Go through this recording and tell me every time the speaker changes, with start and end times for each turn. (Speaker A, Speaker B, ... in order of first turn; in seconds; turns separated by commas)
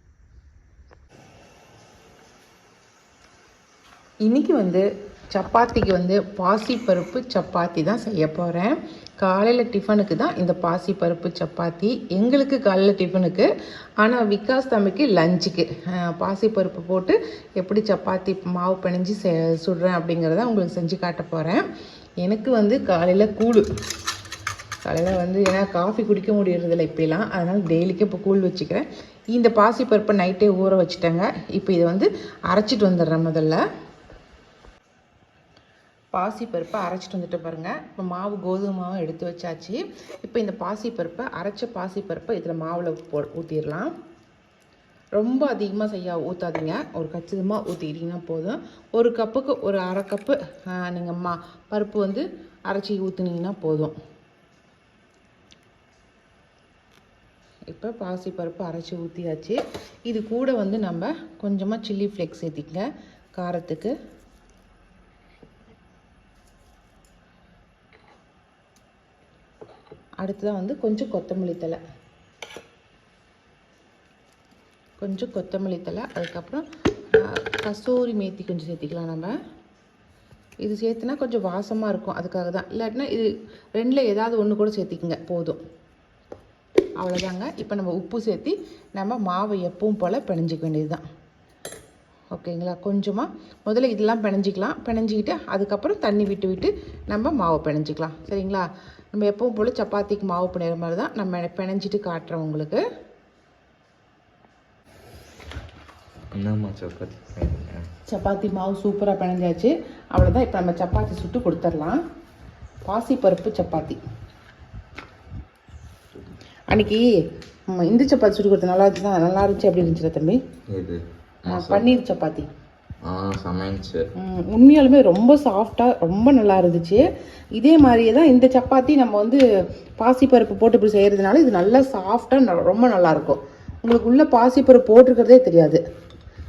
Speaker A: 4.2-13.5, Speaker A: 14.0-21.6, Speaker A: 22.2-23.7, Speaker A: 24.9-33.6, Speaker A: 36.1-43.9, Speaker A: 45.2-53.9, Speaker A: 57.7-62.9, Speaker A: 63.4-63.9, Speaker A: 70.2-71.8, Speaker A: 75.0-76.7, Speaker A: 77.2-79.3, Speaker A: 80.6-85.6, Speaker A: 87.0-91.0, Speaker A: 92.3-102.8, Speaker B: 106.4-107.9, Speaker A: 108.1-112.0, Speaker A: 112.9-114.0, Speaker A: 116.7-117.0, Speaker A: 117.8-120.4, Speaker B: 120.7-121.9, Speaker A: 121.5-122.5, Speaker B: 123.1-124.0, Speaker A: 124.2-127.0, Speaker A: 127.6-129.4, Speaker A: 130.0-135.8